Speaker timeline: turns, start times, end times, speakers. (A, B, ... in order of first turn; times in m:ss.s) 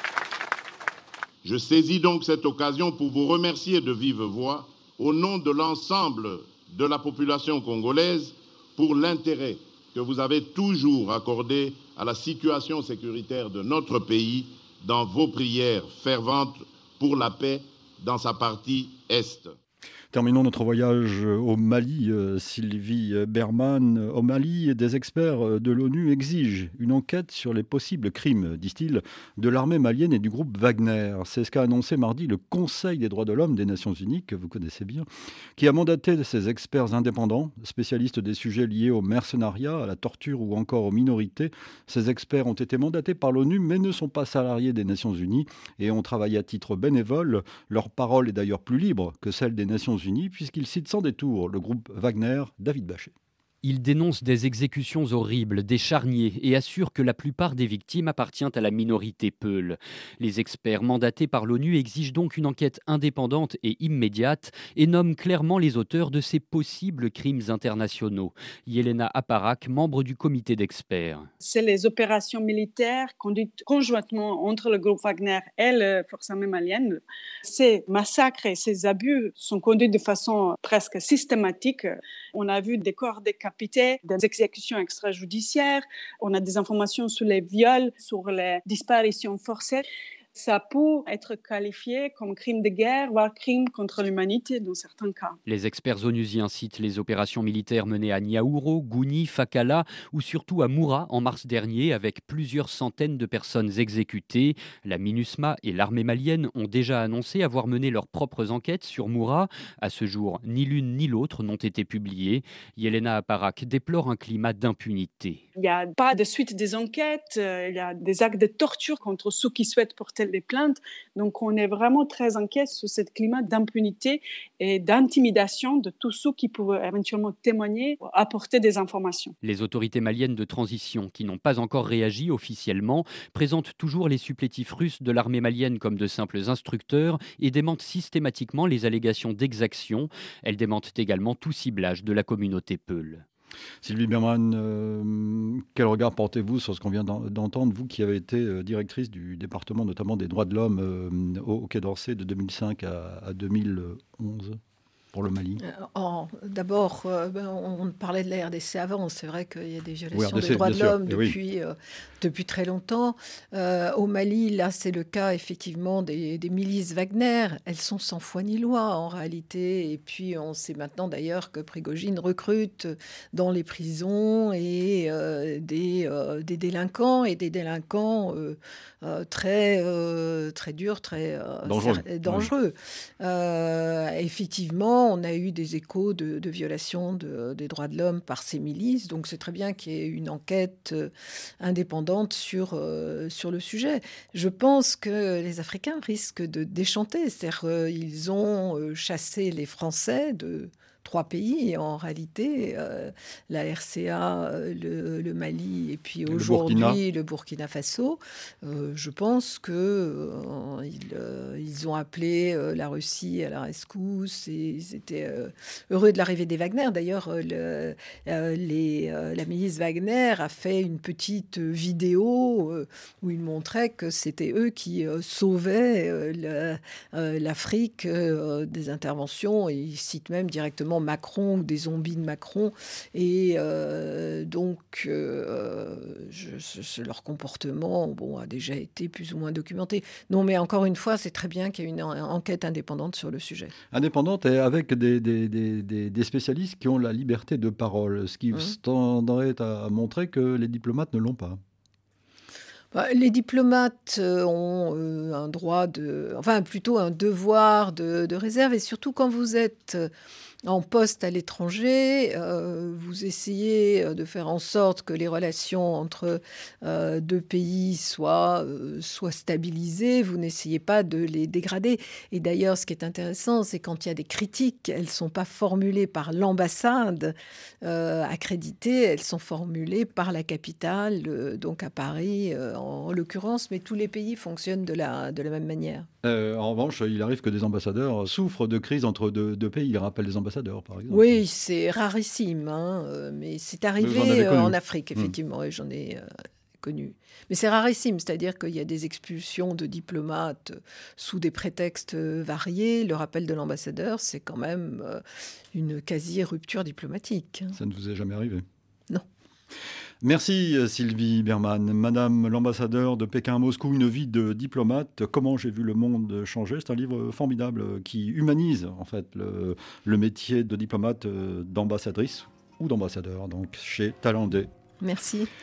0:01.4-0:19.5 A
0:20.1-0:53.1 B
0:53.6-1:11.3 C
1:11.4-1:29.8 D
1:30.4-1:35.4 D
1:35.5-1:55.4 C
1:55.6-2:09.3 D
2:09.4-2:23.2 C
2:23.8-2:34.6 B
2:35.1-2:35.6 B
2:35.6-4:03.7 E
2:40.1-2:41.4 B
3:01.6-3:02.5 B
3:26.3-3:27.0 B
4:03.9-4:11.6 B
4:12.9-4:20.1 E
4:20.6-4:46.1 E
4:46.2-4:51.4 B
4:51.1-4:56.2 E
4:54.0-4:55.3 B
4:56.8-5:05.2 E
5:05.7-5:07.8 E
5:07.7-5:08.6 B
5:10.2-5:24.7 B
5:25.0-5:25.5 E